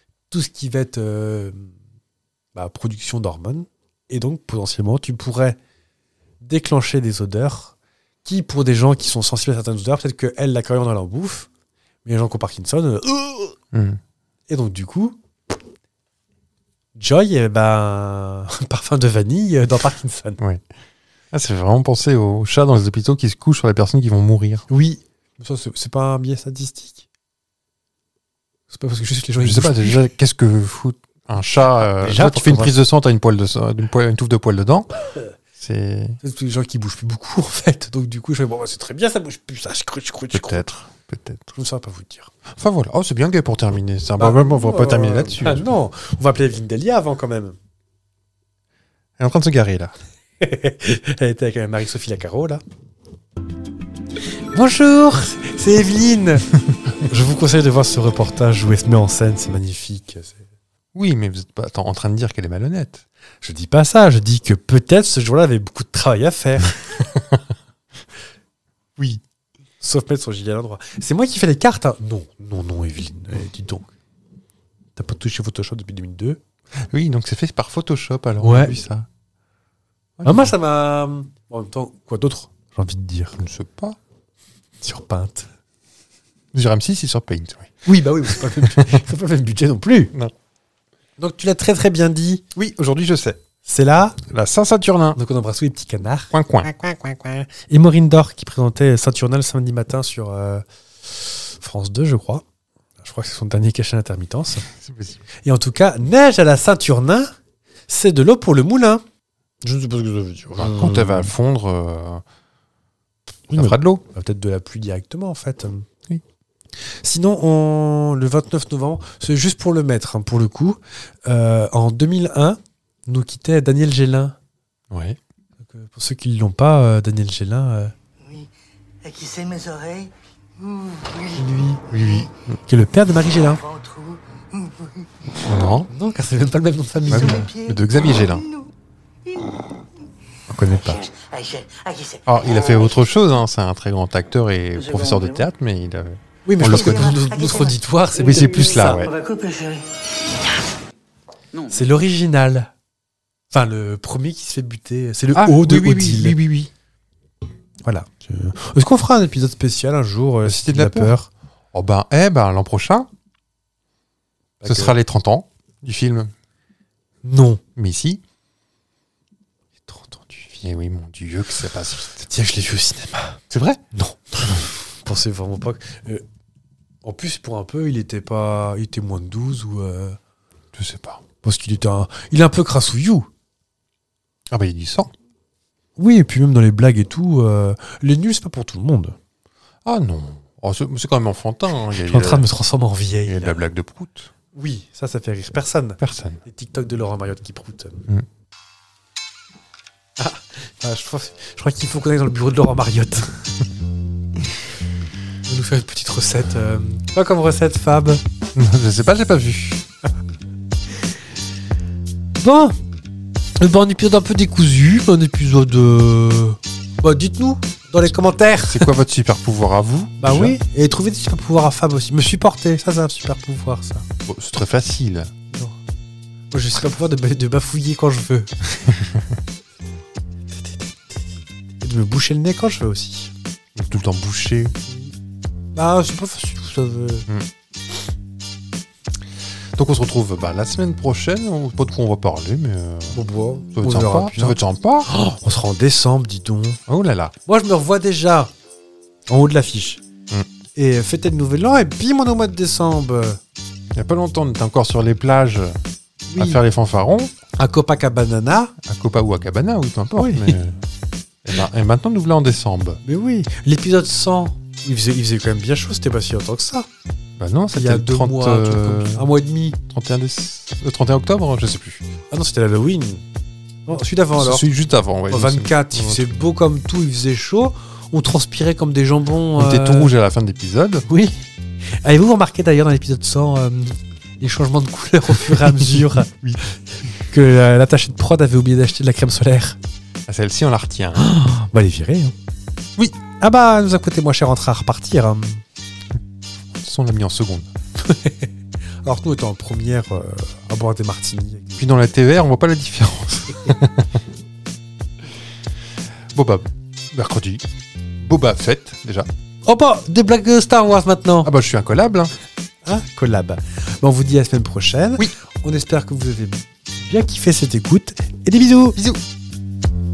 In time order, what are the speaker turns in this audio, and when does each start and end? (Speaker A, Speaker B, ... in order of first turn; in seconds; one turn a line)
Speaker A: 0.3-1.7
Speaker A: 2.5-5.6
Speaker A: 6.4-11.5
Speaker A: 12.0-13.6
Speaker B: 13.7-14.0
Speaker A: 14.5-15.2
Speaker A: 16.9-20.4
Speaker B: 20.4-20.6
Speaker B: 21.3-24.7
Speaker A: 24.7-27.0
Speaker A: 28.7-30.0
Speaker B: 29.4-34.9
Speaker A: 32.0-32.7
Speaker B: 35.6-36.2
Speaker A: 36.2-40.6
Speaker B: 40.3-41.5
Speaker A: 41.5-42.3
Speaker B: 42.5-45.7
Speaker A: 44.2-47.6
Speaker B: 49.2-49.9
Speaker A: 50.4-52.6
Speaker A: 54.5-56.5
Speaker A: 57.0-60.4
Speaker B: 60.9-63.0
Speaker A: 63.4-66.8
Speaker B: 67.0-67.4
Speaker B: 69.0-69.2
Speaker A: 69.8-73.9
Speaker A: 75.0-76.4
Speaker B: 76.9-79.1
Speaker A: 78.4-78.8
Speaker B: 80.2-80.5
Speaker A: 80.2-83.4
Speaker B: 83.3-84.0
Speaker A: 84.8-85.5
Speaker B: 86.5-87.8
Speaker A: 87.8-90.1
Speaker B: 88.4-89.0
Speaker A: 91.2-92.4
Speaker B: 92.5-93.4
Speaker A: 93.6-94.2
Speaker B: 94.2-95.2
Speaker A: 95.2-102.4
Speaker B: 96.3-96.7
Speaker A: 103.0-104.7
Speaker B: 104.7-105.2
Speaker A: 105.4-107.3
Speaker A: 107.9-109.0
Speaker A: 109.6-111.3
Speaker B: 110.6-112.2
Speaker A: 113.5-115.9
Speaker B: 113.5-114.0
Speaker A: 117.0-124.4
Speaker B: 124.9-125.2
Speaker A: 125.7-127.9
Speaker C: 128.2-128.5
Speaker C: 129.0-132.3
Speaker A: 131.3-131.8
Speaker B: 131.9-132.3
Speaker A: 132.7-133.6
Speaker C: 133.4-135.1
Speaker B: 135.4-135.9
Speaker A: 135.9-137.5
Speaker B: 137.1-138.4
Speaker C: 137.1-138.7
Speaker C: 139.2-139.8
Speaker A: 140.5-141.0
Speaker C: 140.6-143.1
Speaker B: 142.2-147.1
Speaker C: 144.7-145.4
Speaker A: 146.4-149.0
Speaker C: 146.6-150.6
Speaker B: 148.2-149.1
Speaker A: 151.7-152.7
Speaker A: 153.5-156.4
Speaker B: 155.3-156.7
Speaker A: 157.8-161.3
Speaker B: 160.4-161.2
Speaker B: 161.7-163.1
Speaker A: 164.6-164.9
Speaker B: 164.6-166.3
Speaker A: 167.2-167.6
Speaker B: 167.8-168.2
Speaker A: 169.9-170.6
Speaker B: 170.6-172.3
Speaker A: 172.2-173.4
Speaker B: 173.5-173.8
Speaker A: 173.9-176.2
Speaker A: 177.0-180.2
Speaker B: 180.7-181.2
Speaker A: 181.4-183.3
Speaker B: 184.5-185.1
Speaker A: 186.0-189.2
Speaker B: 189.8-192.4
Speaker A: 192.0-193.6
Speaker B: 193.2-194.3
Speaker A: 194.5-198.1
Speaker B: 196.0-196.4
Speaker A: 200.2-203.4
Speaker A: 205.4-208.2
Speaker B: 208.5-209.8
Speaker A: 212.3-212.8
Speaker A: 213.6-218.9
Speaker B: 218.7-220.6
Speaker A: 220.2-224.1
Speaker B: 224.2-225.3
Speaker A: 225.5-225.8
Speaker A: 226.5-228.5
Speaker B: 228.8-229.2
Speaker A: 231.8-233.3
Speaker B: 233.7-234.8
Speaker A: 234.9-235.1
Speaker A: 235.7-237.3
Speaker B: 239.7-245.1
Speaker A: 243.1-246.8
Speaker B: 246.9-247.3
Speaker A: 247.4-248.5
Speaker A: 249.3-250.0
Speaker A: 250.7-253.4
Speaker B: 253.9-255.8
Speaker A: 256.3-256.6
Speaker B: 256.4-257.3
Speaker A: 257.6-258.7
Speaker B: 258.8-260.8
Speaker A: 260.1-260.6
Speaker B: 261.4-263.0
Speaker A: 263.0-266.9
Speaker B: 267.4-269.3
Speaker A: 267.7-269.8
Speaker B: 269.9-272.0
Speaker A: 272.3-273.2
Speaker A: 273.9-274.7
Speaker B: 274.4-276.3
Speaker A: 275.3-280.1
Speaker B: 279.6-281.1
Speaker A: 281.1-281.4
Speaker A: 282.0-286.3
Speaker B: 285.5-286.6
Speaker A: 287.3-289.8
Speaker B: 290.3-291.2
Speaker A: 291.1-292.3
Speaker A: 293.4-295.6
Speaker B: 296.7-297.7
Speaker A: 298.0-298.5
Speaker A: 299.0-301.9
Speaker B: 301.8-304.2
Speaker B: 306.3-307.6
Speaker B: 308.2-309.3
Speaker A: 309.6-311.5
Speaker B: 311.4-312.3
Speaker A: 312.8-319.0
Speaker B: 318.9-319.2